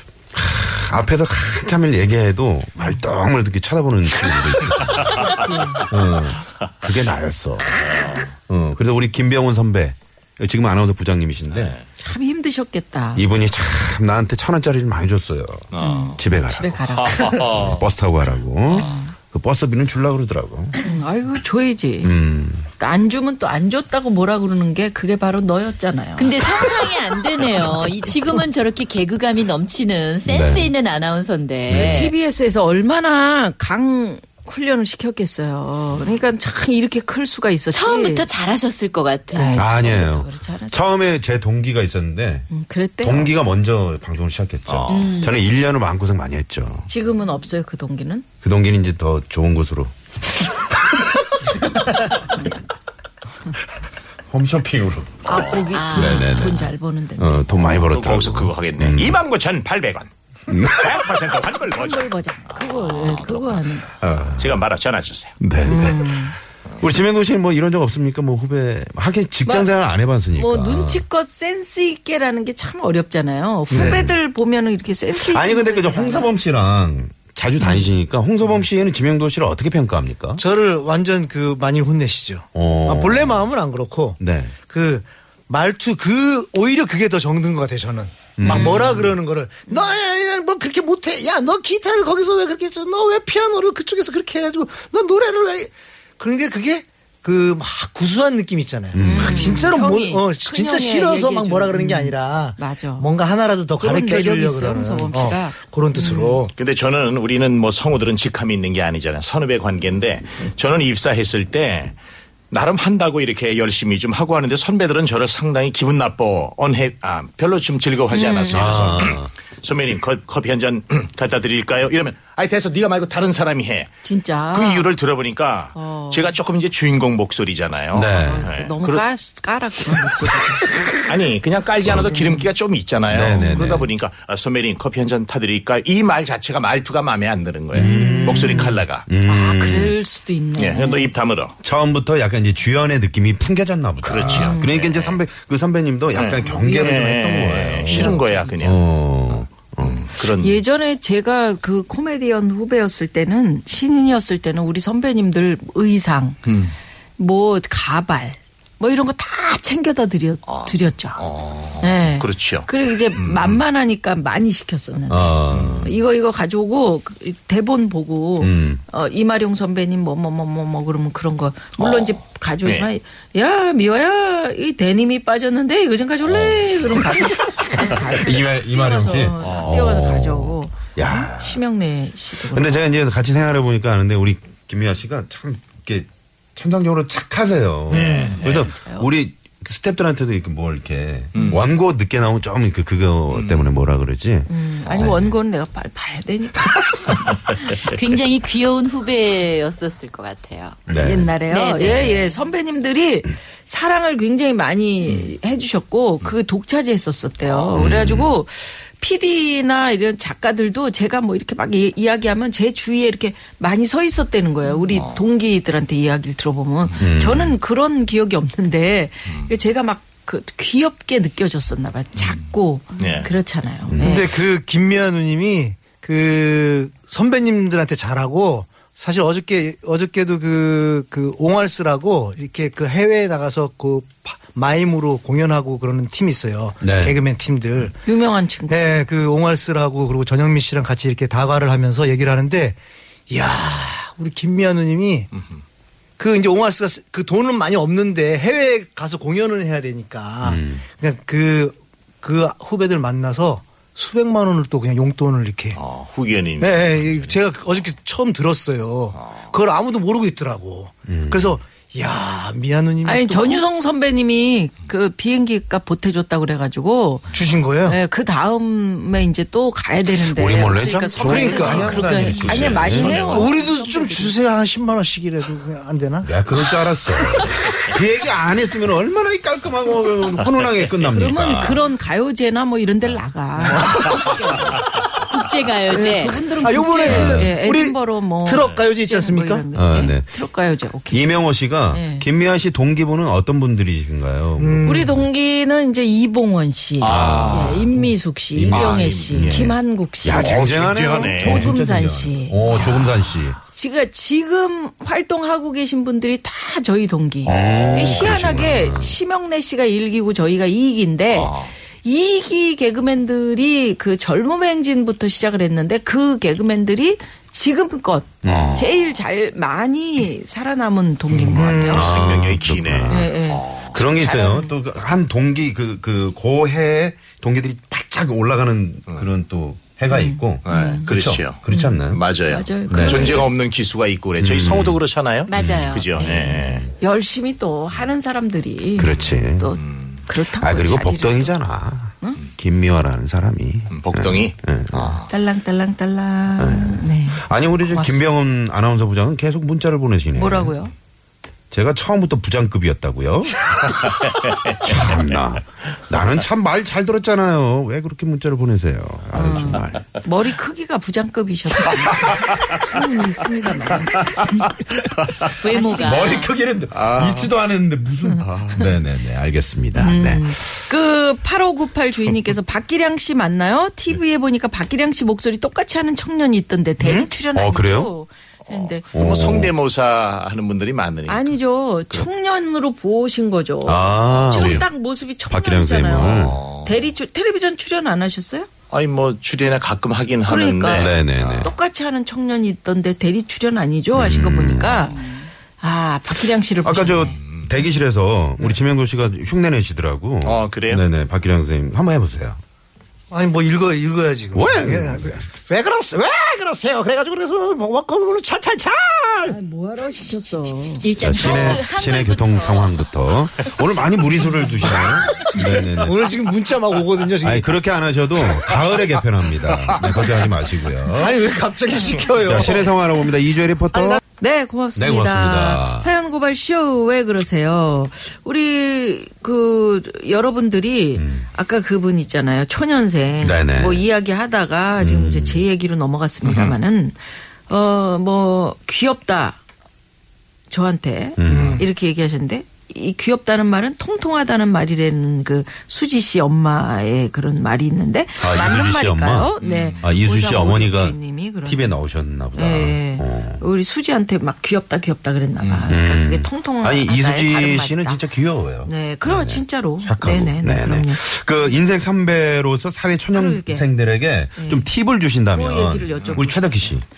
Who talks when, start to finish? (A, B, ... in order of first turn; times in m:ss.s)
0:00.3-0:11.8 A
0:05.0-0:05.9 B
0:07.8-0:08.3 C
0:11.5-0:11.8 C
0:12.0-0:13.2 B
0:13.2-0:20.8 A
0:15.7-0:16.1 C
0:15.8-0:17.5 B
0:16.6-0:17.8 C
0:18.7-0:19.1 B
0:20.8-0:22.1 B
0:22.0-0:22.7 A
0:22.8-0:26.5 B
0:26.2-0:32.1 D
0:30.2-0:30.7 A
0:31.7-0:32.1 A
0:31.7-0:38.3 B
0:37.7-0:39.7 D
0:39.3-0:40.8 B
0:39.5-0:42.5 A
0:42.5-0:43.3 B
0:43.0-0:46.9 A
0:44.7-0:45.0 C
0:44.9-0:45.4 D
0:46.9-0:48.2 B
0:48.4-0:50.7 A
0:54.3-0:59.2 A
0:55.2-0:57.6 B
0:55.7-0:56.6 D
0:57.8-1:03.7 C
1:00.5-1:01.0 A
1:01.7-1:03.9 B
1:04.0-1:04.6 A
1:04.4-1:05.4 C
1:05.4-1:06.3 A
1:05.6-1:06.4 B
1:06.8-1:11.0 A
1:10.3-1:16.3 B
1:13.7-1:14.2 A
1:13.7-1:14.0 E
1:15.2-1:20.4 A
1:20.4-1:46.5 E
1:22.5-1:23.5 A
1:24.2-1:24.5 A
1:28.4-1:28.9 A
1:38.9-1:39.7 A
1:39.0-1:43.1 B
1:43.8-1:46.4 B
1:46.6-1:52.0 C
1:52.5-2:03.9 C
1:58.1-1:59.0 B
1:58.5-1:59.3 A
2:04.0-2:04.9 B
2:04.5-2:09.0 C
2:05.7-2:06.3 B
2:07.9-2:08.5 A
2:08.0-2:10.6 B
2:11.0-2:19.0 C
2:11.8-2:12.1 A
2:12.1-2:12.4 B
2:13.1-2:13.9 A
2:13.3-2:13.8 B
2:17.7-2:20.0 A
2:17.7-2:21.1 B
2:20.6-2:21.5 C
2:21.6-2:30.0 A
2:24.0-2:25.2 C
2:24.3-2:24.8 B
2:26.1-2:28.8 C
2:27.8-2:28.5 B
2:29.8-2:30.6 C
2:30.4-2:36.4 B
2:36.5-2:36.7 C
2:37.2-2:41.2 B
2:40.5-2:43.6 C
2:41.8-3:02.9 B
2:45.1-2:45.9 A
2:45.5-2:45.9 C
2:48.4-2:48.8 A
2:51.8-2:52.9 C
2:56.2-3:01.6 A
2:59.4-2:59.8 C
3:02.5-3:15.3 A
3:07.9-3:08.4 C
3:08.3-3:08.7 D
3:08.4-3:09.0 B
3:11.3-3:11.6 C
3:13.3-3:13.7 C
3:14.5-3:17.2 B
3:17.8-3:20.8 D
3:20.9-3:21.3 A
3:21.0-3:44.3 B
3:21.4-3:22.2 D
3:27.8-3:28.3 A
3:34.9-3:35.2 C
3:37.0-3:37.6 A
3:43.0-3:43.3 C
3:43.9-3:44.3 A
3:44.0-3:58.0 E
3:56.8-3:57.2 A
3:58.0-3:59.0 B
3:58.7-4:02.8 E
4:03.3-4:05.3 E
4:06.2-4:15.8 E
4:10.4-4:10.8 A
4:15.7-4:17.3 C
4:16.6-4:23.6 E
4:19.2-4:19.5 C
4:21.1-4:21.6 A
4:23.0-4:27.3 B
4:27.3-4:28.0 E
4:27.8-4:34.3 B
4:30.2-4:33.3 A
4:31.2-4:32.4 E
4:32.3-4:33.5 C
4:33.0-4:36.3 E
4:36.2-4:41.8 A
4:41.1-4:44.6 B
4:43.7-4:44.6 E
4:45.3-4:46.5 D
4:45.9-4:51.4 B
4:46.6-4:49.6 E
4:47.0-4:47.5 A
4:48.6-4:48.8 C
4:49.7-4:50.3 A
4:51.1-4:55.1 A
4:51.9-4:52.2 B
4:54.6-4:55.1 E
4:54.8-5:02.7 B
4:57.0-4:57.8 C
4:57.0-5:03.6 A
4:58.7-4:59.7 C
5:00.3-5:01.7 C
5:03.7-5:22.1 B
5:07.4-5:08.3 C
5:07.4-5:09.2 A
5:11.3-5:11.7 C
5:18.4-5:18.9 A
5:18.4-5:18.9 C
5:21.5-5:22.1 E
5:21.6-5:23.9 C
5:21.9-5:23.3 A
5:23.1-5:24.7 B
5:23.9-5:32.2 A
5:30.1-5:31.1 B
5:30.6-5:36.9 C
5:31.7-5:33.5 B
5:32.9-5:33.5 A
5:34.4-5:35.0 A
5:35.5-5:36.5 D
5:35.5-5:36.0 A
5:36.2-5:41.6 B
5:39.0-5:39.8 A
5:39.8-5:40.2 C
5:40.6-5:45.2 A
5:43.9-5:45.3 C
5:45.3-5:48.2 B
5:46.6-5:50.7 A
5:50.3-5:50.9 B
5:51.7-6:00.0 A
5:54.0-5:55.2 C
5:59.3-6:04.7 B
6:05.5-6:06.5 D
6:05.6-6:06.4 B
6:05.9-6:10.6 A
6:06.9-6:07.5 C
6:08.4-6:08.9 C
6:10.0-6:19.1 B
6:17.0-6:17.3 E
6:17.5-6:18.1 A
6:18.7-6:21.6 C
6:19.1-6:19.7 A
6:21.3-6:28.7 B
6:23.8-6:24.9 A
6:24.5-6:24.8 C
6:25.5-6:26.6 A
6:26.2-6:27.0 C
6:28.9-6:31.7 C
6:30.5-6:35.2 B
6:30.9-6:31.7 A
6:34.1-6:35.1 A
6:35.8-6:37.4 B
6:36.8-6:42.6 A
6:37.4-6:37.7 C
6:40.4-6:41.0 C
6:43.3-6:49.6 E
6:44.5-6:45.4 A
6:49.5-6:51.1 B
6:51.0-6:53.0 D
6:51.2-6:56.3 A
6:55.3-6:57.7 E
6:57.4-7:01.4 A
6:59.8-7:00.2 C
7:01.1-7:02.9 E
7:02.4-7:04.2 A
7:03.9-7:04.2 E
7:04.4-7:17.2 B
7:05.0-7:06.1 A
7:11.2-7:11.5 A
7:13.4-7:14.0 A
7:15.0-7:15.6 A
7:16.4-7:16.7 C
7:17.7-7:19.6 B
7:20.7-7:32.0 B
7:21.4-7:21.8 A
7:21.5-7:21.8 C
7:28.4-7:33.6 A
7:29.6-7:30.0 C
7:32.5-7:38.2 B
7:35.6-7:35.9 C
7:35.9-7:47.0 A
7:38.8-7:41.2 B
7:43.3-7:43.9 B
7:44.6-7:44.9 B
7:45.5-7:46.9 B